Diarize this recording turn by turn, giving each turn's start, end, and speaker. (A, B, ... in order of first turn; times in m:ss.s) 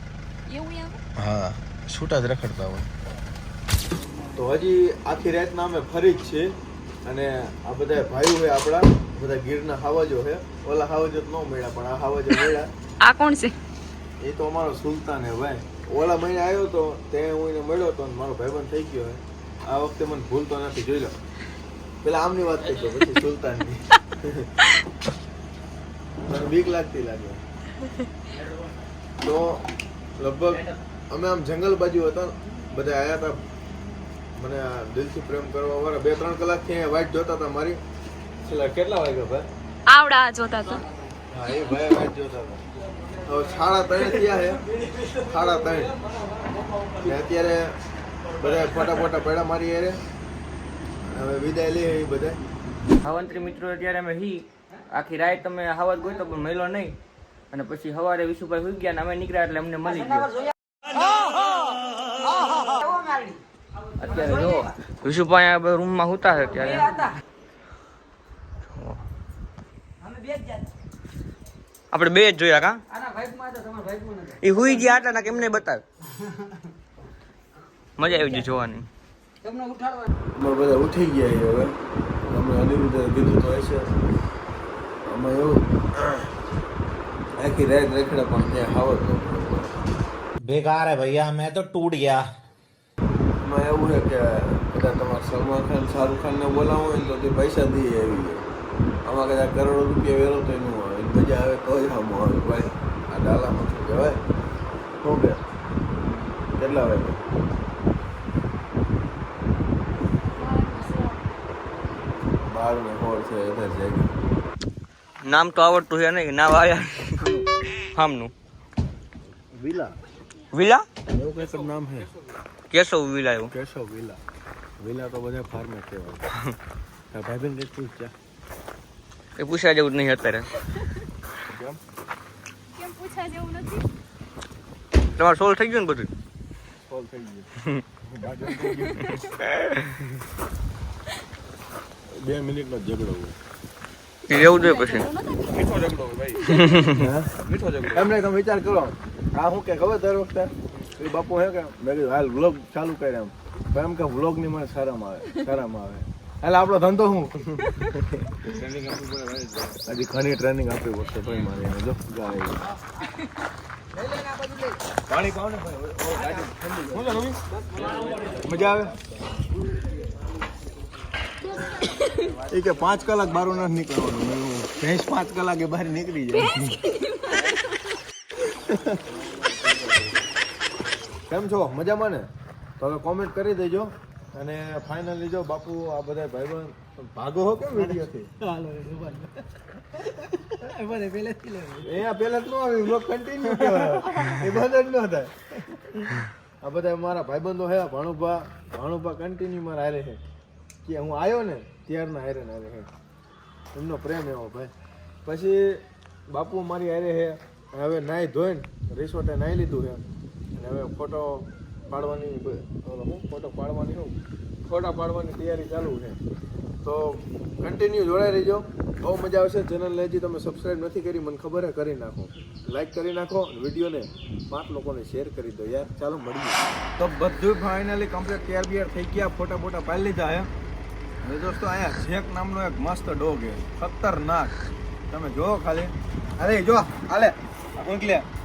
0:00.5-0:01.0 A
0:01.2-0:02.9 B
0:04.4-0:12.7 B
0:12.3-0:13.6 A
0:14.2-0:21.2 B
0:22.0-0:24.5 B
0:26.2-0:27.4 B
0:29.2-0:33.4 B
0:34.4-0:37.8 B
0:38.4-0:39.5 B
0:39.9-0:40.8 A
0:41.3-0:42.6 B
0:43.3-0:44.6 B
0:45.2-0:45.9 B
0:47.0-0:47.8 B
0:48.4-0:50.0 B
0:51.1-0:52.4 B
0:53.0-0:57.0 C
0:57.5-1:00.4 C
1:04.0-1:07.1 C
1:08.8-1:09.0 C
1:11.9-1:12.8 C
1:13.5-1:14.1 D
1:14.4-1:15.8 C
1:18.0-1:18.9 C
1:20.4-1:21.7 B
1:22.3-1:23.9 B
1:25.0-1:26.3 B
1:27.4-1:29.7 B
1:30.4-1:32.3 E
1:33.4-1:38.4 B
1:39.0-1:44.2 B
1:45.0-1:45.4 B
1:46.6-1:47.2 B
1:50.4-1:51.1 A
1:52.5-1:54.1 B
1:55.2-1:58.3 C
1:59.5-2:00.0 B
2:00.5-2:00.9 C
2:01.1-2:02.1 B
2:02.7-2:03.5 C
2:03.5-2:04.2 B
2:04.8-2:06.2 B
2:07.1-2:08.1 B
2:09.4-2:10.5 C
2:11.5-2:11.8 B
2:12.7-2:13.8 A
2:15.2-2:16.1 C
2:16.9-2:17.5 B
2:18.0-2:19.3 B
2:18.6-2:19.2 A
2:22.1-2:23.4 B
2:24.3-2:25.1 C
2:24.3-2:25.7 A
2:25.5-2:26.6 D
2:26.4-2:27.0 C
2:27.0-2:27.3 B
2:27.4-2:28.1 D
2:27.9-2:38.5 B
2:38.5-2:39.8 D
2:39.8-2:42.6 B
2:45.1-2:47.4 B
2:48.4-2:49.0 B
2:51.7-2:52.3 A
2:52.4-2:56.8 B
2:56.3-2:57.9 A
2:58.5-2:59.1 B
3:01.3-3:02.3 B
3:02.8-3:08.4 B
3:08.6-3:08.9 E
3:08.9-3:09.3 D
3:10.7-3:11.6 D
3:10.8-3:11.8 E
3:11.8-3:20.2 B
3:20.8-3:22.9 B
3:23.8-3:24.7 B
3:25.2-3:30.0 B
3:30.6-3:36.2 B
3:36.8-3:50.5 B
3:51.2-3:54.6 B
3:55.1-3:58.3 B